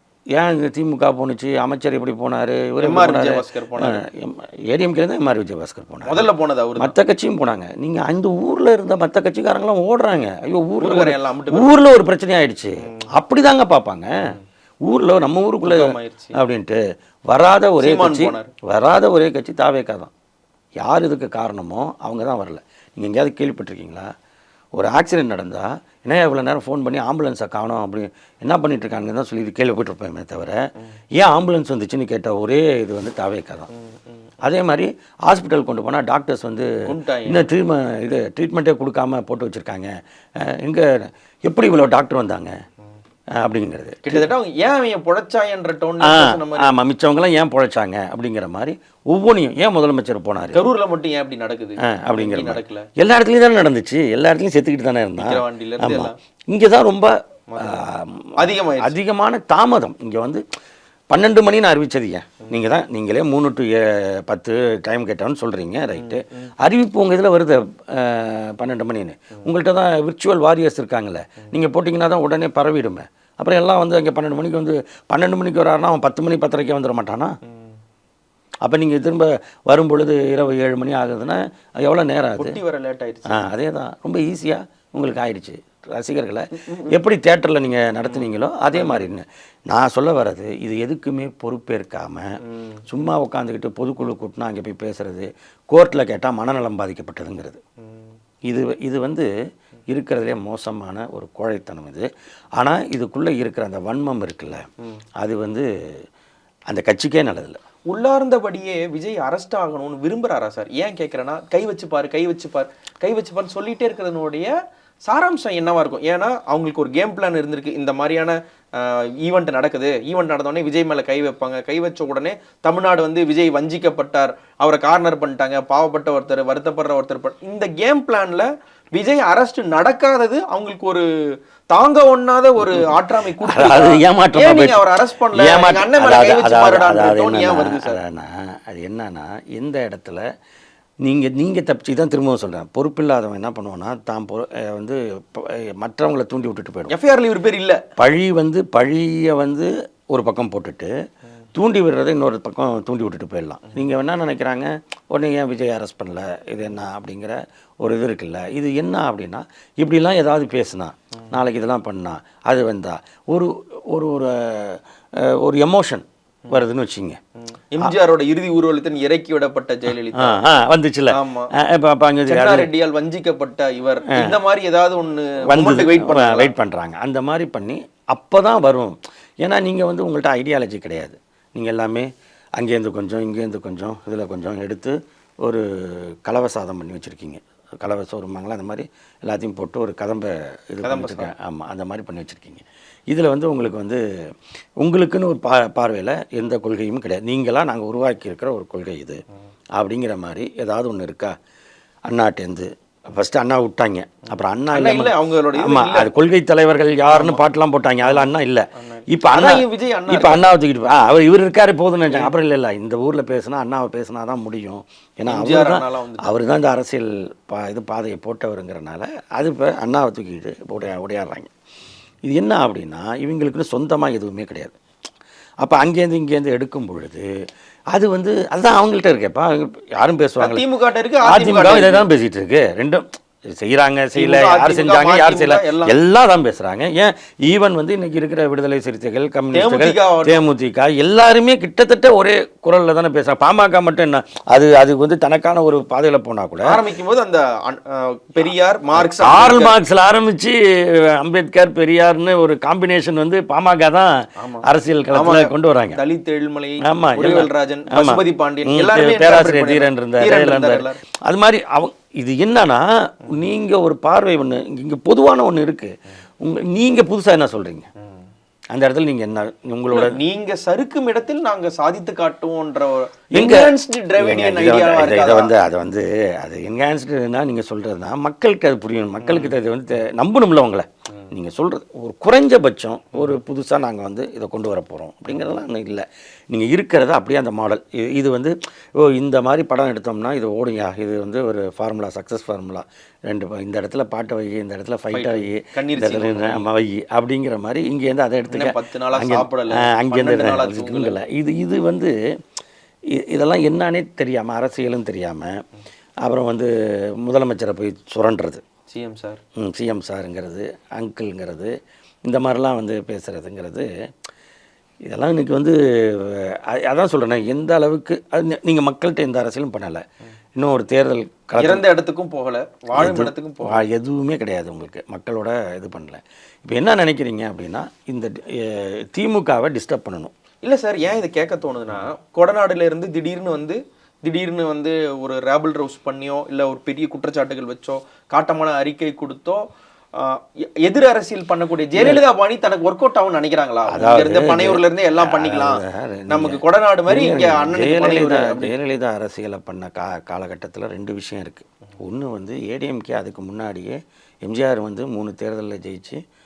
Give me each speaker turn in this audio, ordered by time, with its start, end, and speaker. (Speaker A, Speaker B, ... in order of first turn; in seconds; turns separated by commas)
Speaker A: 0.3-6.2, Speaker B: 2.8-4.0, Speaker B: 6.0-6.9, Speaker A: 6.8-14.3, Speaker B: 10.8-11.7, Speaker A: 14.9-20.1, Speaker B: 15.6-16.4, Speaker B: 17.8-18.5, Speaker A: 20.8-24.1, Speaker A: 24.8-33.7, Speaker B: 33.7-34.1, Speaker A: 34.4-42.5, Speaker B: 36.8-37.5, Speaker A: 43.4-44.3, Speaker B: 44.0-46.7, Speaker A: 46.0-50.6, Speaker B: 50.5-52.9, Speaker A: 51.8-60.4, Speaker B: 55.2-56.1, Speaker B: 57.5-59.0, Speaker A: 61.1-77.4, Speaker B: 65.9-66.5, Speaker A: 78.6-82.6, Speaker B: 82.4-83.5, Speaker A: 83.3-92.3, Speaker B: 86.5-87.0, Speaker B: 88.1-89.1, Speaker B: 92.4-93.0, Speaker A: 92.9-97.6, Speaker A: 98.5-99.3, Speaker A: 99.9-102.1, Speaker A: 102.6-104.6, Speaker A: 105.2-105.7, Speaker A: 106.7-107.6, Speaker B: 107.9-114.5, Speaker B: 115.1-131.1, Speaker B: 131.7-138.0, Speaker A: 132.6-140.2, Speaker A: 141.0-146.9, Speaker B: 146.9-147.8, Speaker A: 148.0-150.9, Speaker A: 151.5-167.2, Speaker B: 167.5-170.4, Speaker A: 170.1-172.7, Speaker B: 171.1-171.5, Speaker B: 172.3-176.5, Speaker A: 174.1-174.4, Speaker A: 175.5-194.0, Speaker B: 190.8-191.3, Speaker A: 194.8-199.2, Speaker A: 199.8-201.3, Speaker A: 202.1-221.5, Speaker B: 204.7-206.1, Speaker B: 207.1-207.4, Speaker B: 208.0-210.5, Speaker B: 212.1-212.3, Speaker B: 215.3-216.3, Speaker A: 222.3-224.8, Speaker A: 225.6-227.2, Speaker A: 227.9-230.6, Speaker B: 230.4-232.1, Speaker A: 231.2-246.8, Speaker B: 234.1-236.0, Speaker B: 239.5-240.4, Speaker B: 246.6-249.7, Speaker A: 248.4-256.0, Speaker B: 254.4-261.0, Speaker A: 256.8-267.9, Speaker A: 268.7-270.2, Speaker B: 269.9-275.5, Speaker A: 273.3-302.1, Speaker B: 279.2-279.6, Speaker B: 285.3-285.6, Speaker B: 295.1-296.6, Speaker B: 298.5-301.2, Speaker A: 303.1-305.5, Speaker A: 306.2-308.6, Speaker B: 308.9-309.4, Speaker A: 309.6-311.7, Speaker A: 312.3-313.9, Speaker A: 315.1-320.0, Speaker A: 320.6-321.8, Speaker B: 321.6-323.8, Speaker A: 322.9-330.3, Speaker B: 330.6-339.6, Speaker B: 340.1-348.7, Speaker A: 341.9-342.2, Speaker A: 343.9-356.2